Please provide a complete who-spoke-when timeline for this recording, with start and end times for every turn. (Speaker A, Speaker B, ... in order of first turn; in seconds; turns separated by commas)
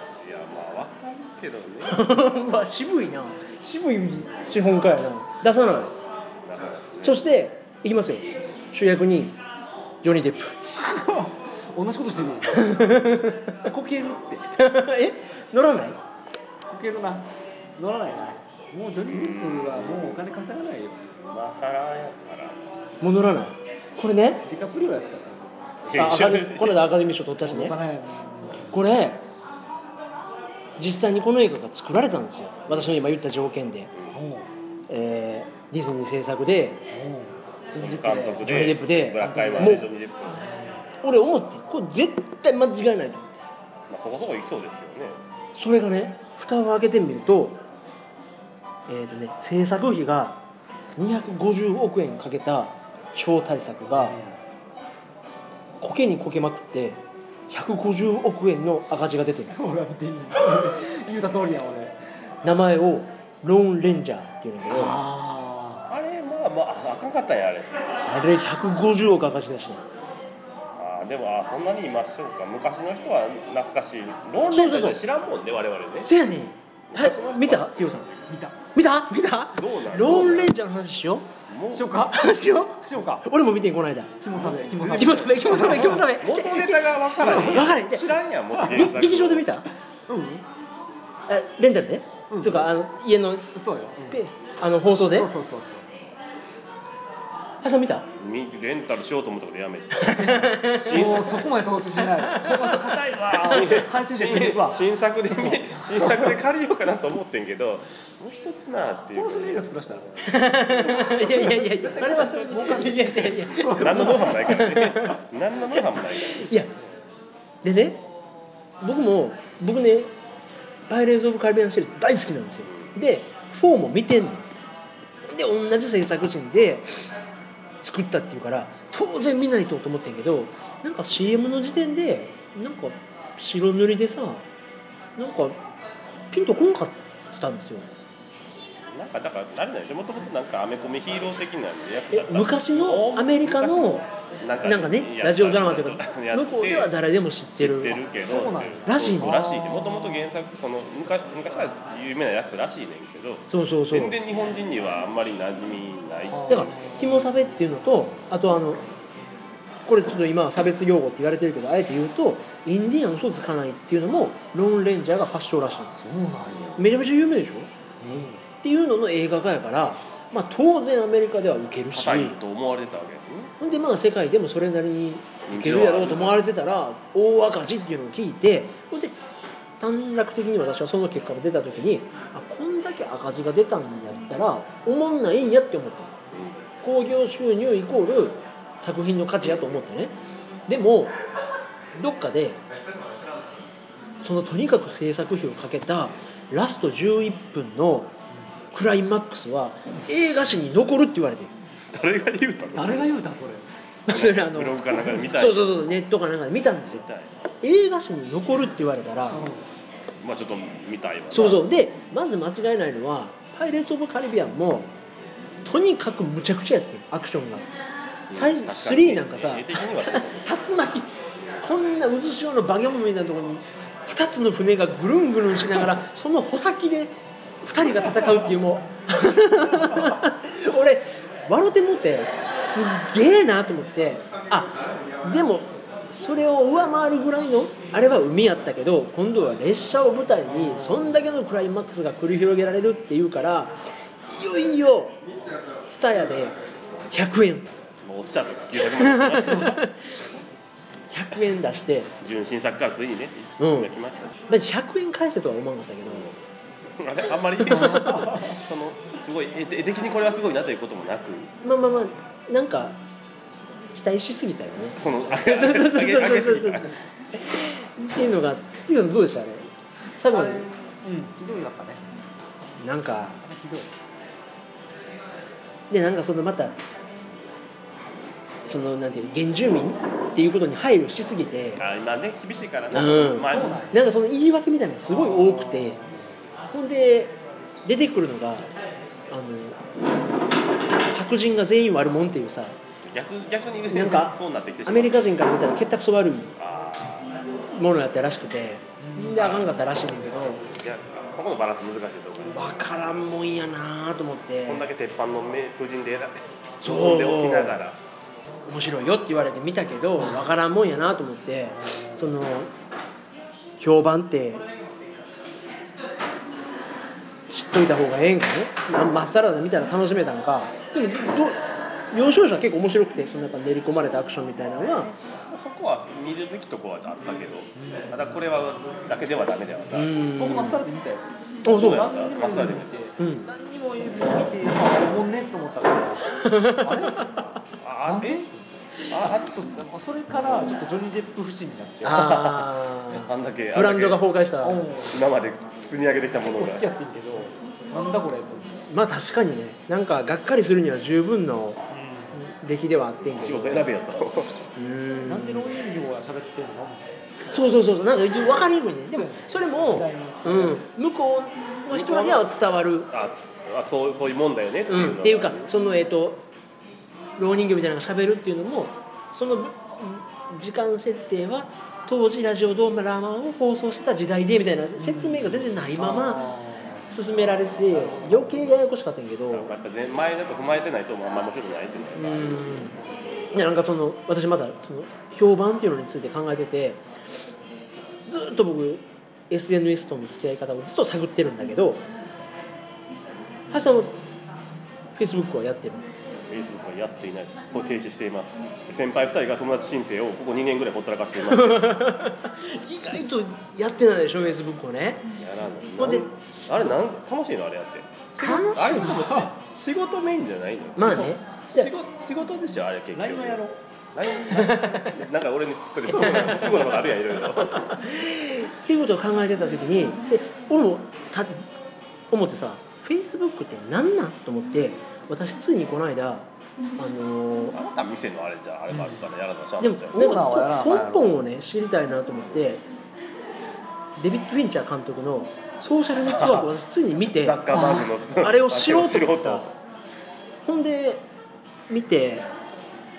Speaker A: 0.2-2.1, Speaker B: 1.9-5.9, Speaker A: 5.6-5.9, Speaker A: 6.4-7.2, Speaker B: 7.0-9.4, Speaker B: 10.0-10.6, Speaker C: 10.7-12.9, Speaker B: 12.5-13.6, Speaker C: 13.6-14.5, Speaker B: 14.6-16.0, Speaker C: 16.7-21.0, Speaker A: 19.1-20.2, Speaker A: 21.3-22.6, Speaker B: 23.0-24.5, Speaker C: 24.4-25.5, Speaker A: 25.9-26.9, Speaker B: 26.0-27.8, Speaker C: 27.4-28.8, Speaker B: 28.7-29.2, Speaker B: 30.8-33.9, Speaker A: 32.7-33.0, Speaker A: 33.9-34.2, Speaker C: 34.1-34.5, Speaker B: 34.9-36.8, Speaker C: 36.9-39.9, Speaker A: 37.8-40.5, Speaker B: 38.4-39.9, Speaker C: 40.4-40.8, Speaker B: 41.0-43.4, Speaker A: 43.9-45.2, Speaker B: 45.6-47.6, Speaker B: 48.9-50.4, Speaker B: 50.9-54.2, Speaker C: 54.0-54.4, Speaker B: 55.8-59.6, Speaker C: 59.5-62.0, Speaker B: 62.4-65.0, Speaker C: 64.7-65.9, Speaker A: 65.9-67.8, Speaker B: 68.1-69.8, Speaker A: 70.8-76.1, Speaker B: 74.5-75.0, Speaker B: 76.0-78.1, Speaker A: 76.9-78.3, Speaker C: 78.3-78.6, Speaker B: 78.7-81.3, Speaker A: 79.5-80.5, Speaker A: 81.5-82.1, Speaker C: 81.7-83.2, Speaker B: 82.1-84.2, Speaker C: 84.2-86.1, Speaker A: 84.3-85.1, Speaker B: 84.9-88.2, Speaker A: 85.8-89.5, Speaker C: 87.2-87.7, Speaker C: 88.5-88.9, Speaker B: 88.7-89.7, Speaker C: 90.1-90.5, Speaker B: 91.3-93.5, Speaker C: 92.3-92.7, Speaker C: 93.5-94.2, Speaker B: 94.1-95.3, Speaker C: 95.1-95.9, Speaker B: 97.6-98.1, Speaker A: 98.2-101.8, Speaker B: 100.0-101.1, Speaker C: 100.2-106.3, Speaker B: 102.2-102.7, Speaker A: 102.5-110.0, Speaker C: 109.1-114.6, Speaker B: 110.2-115.2, Speaker A: 113.8-116.5, Speaker B: 116.4-116.7, Speaker B: 117.6-118.0, Speaker B: 118.8-120.1, Speaker B: 120.9-124.5, Speaker B: 125.3-126.9, Speaker B: 127.8-134.5, Speaker B: 135.2-135.6, Speaker B: 136.3-137.9, Speaker A: 138.9-146.9, Speaker B: 142.1-144.1, Speaker B: 144.6-148.0, Speaker A: 147.6-156.7, Speaker C: 148.2-150.2, Speaker B: 148.9-149.6, Speaker B: 153.5-154.2, Speaker C: 156.3-157.3, Speaker B: 156.5-158.8, Speaker B: 159.9-165.9, Speaker C: 165.9-166.9, Speaker B: 166.8-167.7, Speaker C: 168.0-168.4, Speaker B: 168.6-172.4, Speaker A: 171.9-173.6, Speaker B: 173.6-179.2, Speaker A: 175.5-176.4, Speaker B: 179.8-186.1, Speaker A: 186.3-186.6, Speaker B: 186.8-190.1, Speaker B: 190.7-191.2, Speaker B: 191.9-192.6, Speaker B: 194.2-198.1, Speaker B: 198.7-201.5, Speaker A: 201.9-203.2, Speaker C: 202.8-203.7, Speaker B: 204.1-207.1, Speaker A: 204.1-205.7, Speaker A: 206.8-207.3, Speaker B: 207.6-209.5, Speaker C: 209.3-209.7, Speaker A: 210.2-211.7, Speaker B: 211.3-214.9, Speaker B: 215.7-217.7, Speaker A: 218.3-220.5, Speaker B: 218.3-221.1, Speaker B: 221.6-245.2, Speaker C: 240.5-241.2, Speaker B: 245.9-246.6, Speaker B: 247.1-247.7, Speaker A: 248.0-249.8, Speaker B: 248.8-250.0, Speaker B: 251.1-252.1, Speaker A: 252.2-254.4, Speaker B: 253.6-253.9, Speaker B: 254.5-256.4, Speaker A: 257.0-261.5, Speaker B: 257.7-258.3, Speaker C: 257.7-258.5, Speaker B: 261.6-263.0, Speaker B: 263.9-270.7, Speaker A: 265.0-267.0, Speaker C: 270.3-272.1, Speaker B: 272.8-273.4, Speaker C: 273.4-273.9, Speaker B: 275.9-276.8, Speaker B: 278.7-281.8, Speaker A: 281.8-283.9, Speaker B: 282.9-286.0, Speaker C: 283.4-284.0, Speaker C: 285.1-286.1, Speaker B: 286.7-288.7, Speaker B: 289.3-289.8, Speaker B: 291.1-292.8, Speaker A: 293.0-295.3, Speaker B: 293.9-296.5, Speaker A: 296.6-297.3, Speaker B: 297.7-300.6, Speaker C: 299.0-299.6, Speaker A: 300.6-302.8, Speaker B: 302.5-304.9, Speaker A: 304.6-308.0, Speaker B: 306.8-307.8, Speaker B: 308.7-312.7, Speaker B: 313.8-314.6, Speaker B: 317.5-325.1, Speaker A: 325.5-330.2, Speaker C: 327.8-328.1, Speaker B: 329.9-330.8, Speaker C: 330.4-337.5, Speaker B: 331.6-332.0, Speaker A: 331.7-332.9, Speaker B: 333.2-333.5, Speaker B: 336.4-337.1, Speaker A: 337.8-338.5, Speaker C: 338.1-338.6, Speaker A: 339.1-339.7, Speaker C: 339.2-342.3, Speaker B: 342.0-344.9, Speaker A: 342.1-344.2, Speaker C: 344.6-345.2, Speaker A: 345.1-346.9, Speaker C: 346.4-348.8, Speaker B: 348.9-351.8, Speaker C: 351.9-352.4, Speaker B: 352.3-353.9, Speaker A: 353.4-354.6, Speaker B: 354.8-355.7, Speaker C: 355.3-357.1, Speaker B: 357.5-363.1, Speaker C: 359.1-360.8, Speaker A: 361.9-362.5, Speaker A: 363.1-365.7, Speaker B: 364.9-366.4, Speaker B: 367.4-376.5, Speaker C: 375.0-377.1, Speaker B: 377.1-379.7, Speaker C: 377.9-378.7, Speaker A: 379.5-382.9, Speaker B: 382.2-383.0, Speaker B: 383.5-387.0, Speaker B: 388.3-392.1, Speaker B: 393.7-394.2, Speaker B: 395.2-396.1, Speaker A: 396.5-402.0, Speaker B: 401.5-405.3, Speaker A: 405.4-413.6, Speaker B: 406.0-406.9, Speaker B: 408.4-409.4, Speaker C: 408.9-409.4, Speaker B: 411.0-411.9, Speaker C: 413.1-413.8, Speaker A: 414.1-418.0, Speaker B: 414.5-415.1, Speaker B: 416.2-416.6, Speaker C: 416.2-417.0, Speaker B: 417.7-421.6, Speaker B: 422.3-427.8, Speaker A: 427.7-430.4, Speaker C: 428.9-429.2, Speaker B: 429.8-432.8, Speaker C: 430.1-431.4, Speaker B: 434.2-439.7, Speaker A: 436.3-436.7, Speaker A: 437.3-439.7, Speaker C: 437.7-438.0, Speaker B: 440.6-441.2, Speaker B: 441.9-442.5